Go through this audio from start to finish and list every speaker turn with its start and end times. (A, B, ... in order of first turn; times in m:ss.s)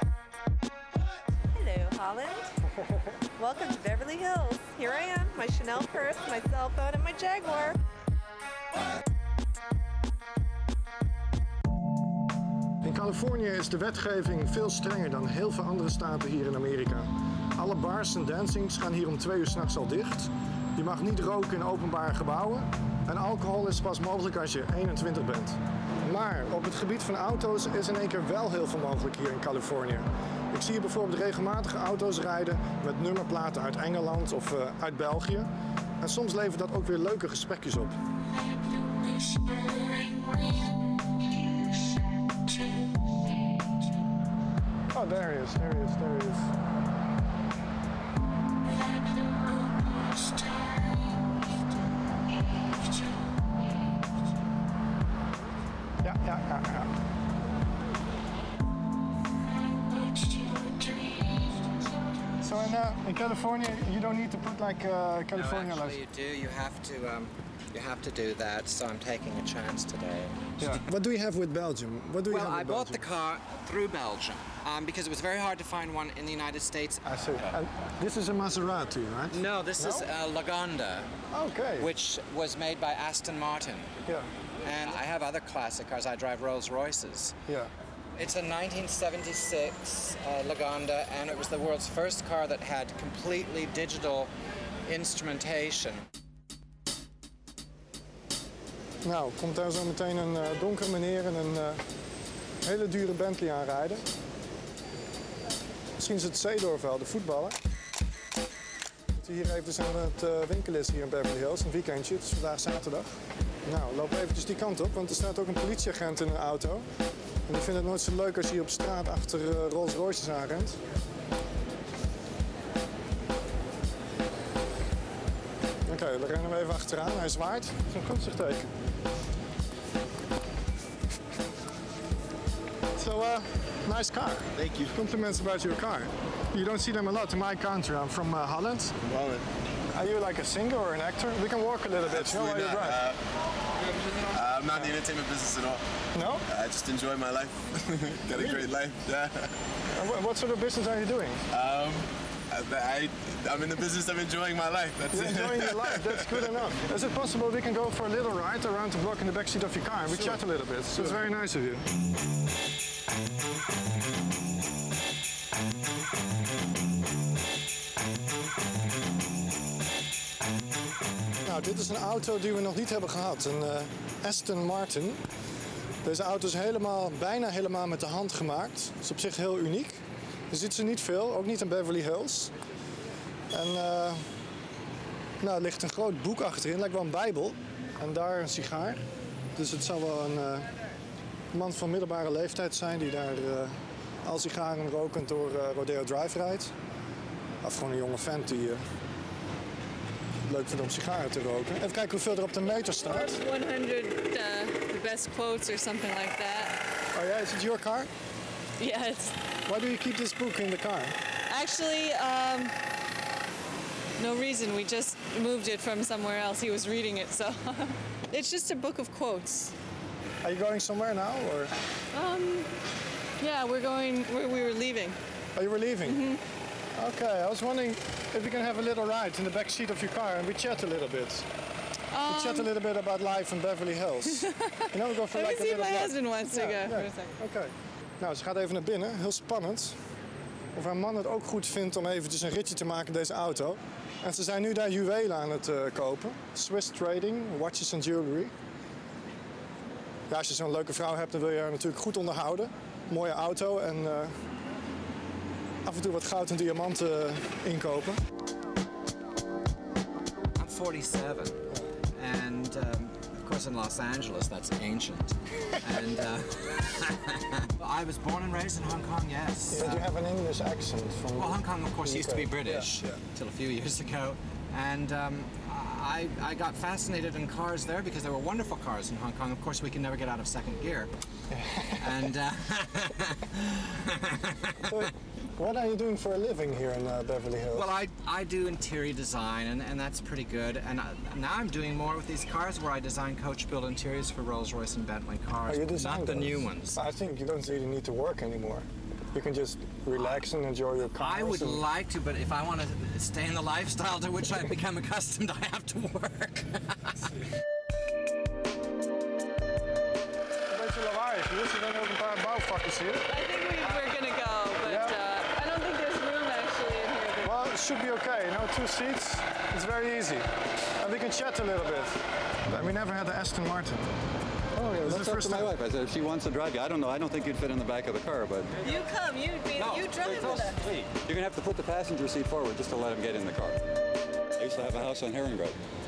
0:01.6-0:02.5 A
0:03.4-0:07.8 A
0:12.8-0:38.0 B
0:44.9-0:46.5 B
0:56.0-0:57.0 B
1:02.4-1:06.0 B
1:05.3-1:10.8 C
1:10.6-1:13.1 B
1:12.3-1:17.6 C
1:17.0-1:20.1 B
1:19.3-1:21.1 C
1:21.3-1:21.9 B
1:21.8-1:23.9 C
1:24.0-1:24.3 B
1:24.6-1:27.4 C
1:28.2-1:34.3 C
1:34.9-1:36.1 C
1:39.0-1:41.8 B
1:42.6-1:44.1 B
1:46.0-1:47.6 B
1:49.1-1:56.9 B
1:57.5-2:00.8 B
2:05.9-2:08.7 B
2:13.0-2:19.0 B
2:14.6-2:14.9 D
2:19.0-2:19.5 D
2:19.9-2:23.0 B
2:22.0-2:23.2 D
2:24.2-2:25.8 D
2:26.2-2:26.5 B
2:26.5-2:29.7 D
2:28.3-2:28.7 B
2:29.9-2:31.5 B
2:31.5-2:36.6 D
2:35.1-2:41.9 B
2:40.1-2:40.4 D
2:51.4-2:55.2 B
2:56.0-3:02.5 B
3:03.5-3:04.3 B
3:05.4-3:10.7 B
3:11.5-3:16.7 B
3:17.6-3:18.8 B
3:20.5-3:23.4 B
3:23.0-3:26.8 E
3:27.1-3:28.1 B
3:28.8-3:29.4 E
3:29.7-3:31.2 B
3:31.5-3:32.7 E
3:34.2-3:39.8 E
3:40.4-3:41.7 B
3:42.1-3:42.7 E
3:43.4-3:45.2 E
3:45.6-3:46.3 B
3:46.1-3:46.4 E
3:47.0-3:51.5 B
3:52.1-3:52.7 E
3:52.3-4:00.0 B
3:54.4-3:57.4 E
4:00.8-4:08.5 B
4:10.3-4:14.4 B
4:15.8-4:18.2 B
4:20.6-4:21.6 C
4:22.2-4:30.1 C
4:29.7-4:33.2 B
4:31.4-4:41.1 C
4:41.5-4:42.2 B
4:42.0-4:45.0 C
4:44.9-4:47.9 B
4:47.7-4:57.0 C
4:55.7-5:01.8 B
5:01.2-5:07.0 C
5:10.7-5:13.3 B
5:13.3-5:17.5 E
5:14.8-5:15.2 B
5:17.4-5:24.1 B
5:24.8-5:28.8 F
5:25.0-5:25.7 B
5:28.8-5:30.9 E
5:29.8-5:31.1 C
5:30.2-5:33.8 F
5:34.6-5:35.8 F